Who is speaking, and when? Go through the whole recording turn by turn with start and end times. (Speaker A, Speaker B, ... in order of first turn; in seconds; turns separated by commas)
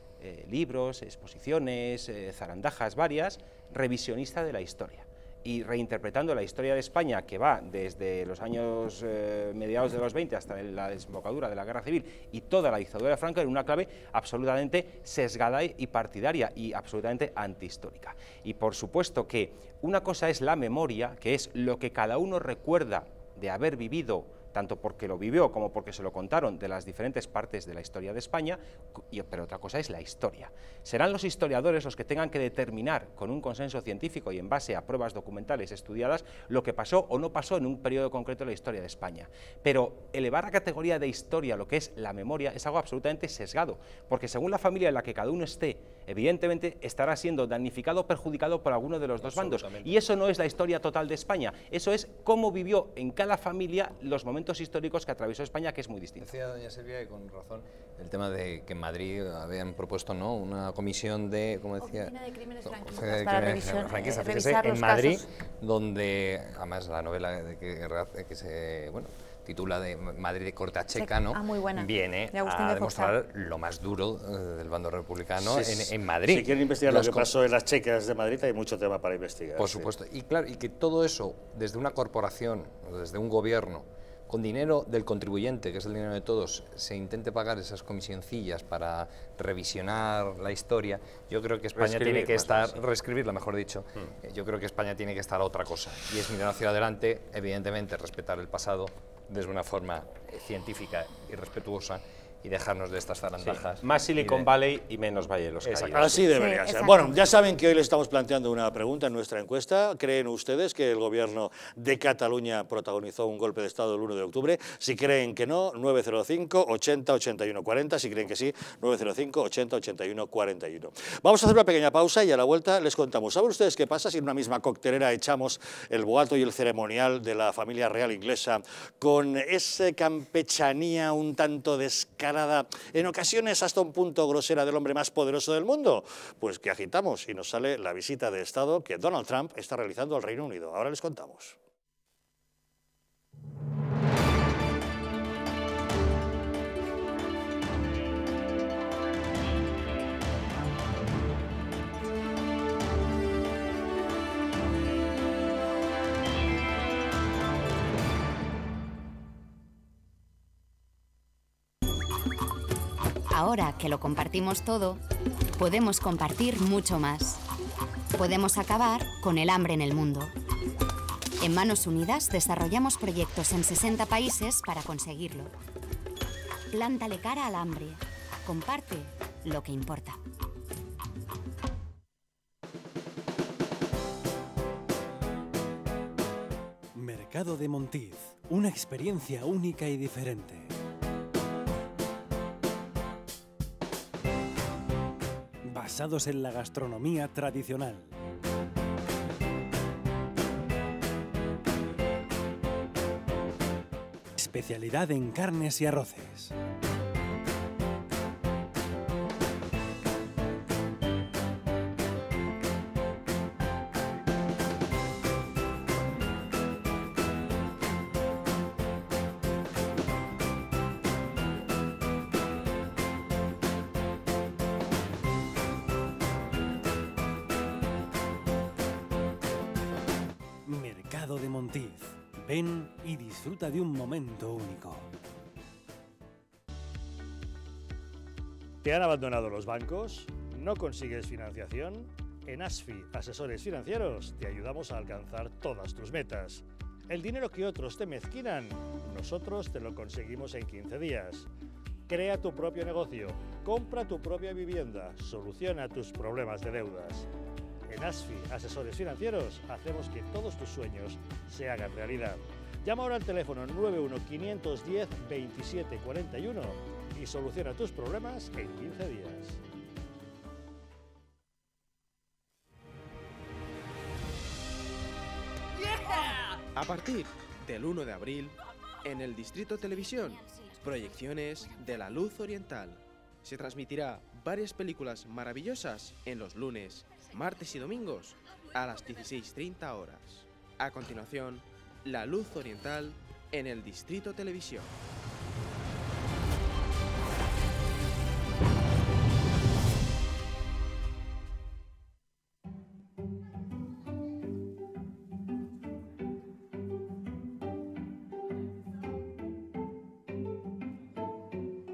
Speaker A: 0.2-56.3, Speaker B: 49.2-50.0, Speaker B: 56.2-62.1, Speaker C: 61.8-65.3, Speaker B: 62.6-77.3, Speaker C: 70.9-73.1, Speaker D: 75.4-79.9, Speaker B: 79.6-104.5, Speaker A: 91.8-92.7, Speaker A: 103.5-106.3, Speaker B: 105.6-106.2, Speaker D: 105.9-141.6, Speaker C: 106.3-107.2, Speaker E: 163.3-165.0, Speaker E: 165.6-167.4, Speaker E: 168.2-170.3, Speaker E: 171.4-175.5, Speaker E: 176.7-180.2, Speaker F: 186.9-190.7, Speaker F: 195.7-198.1, Speaker F: 204.4-206.5, Speaker F: 230.7-235.1, Speaker D: 238.8-251.5, Speaker D: 252.1-257.3, Speaker D: 257.9-269.6, Speaker G: 276.7-294.9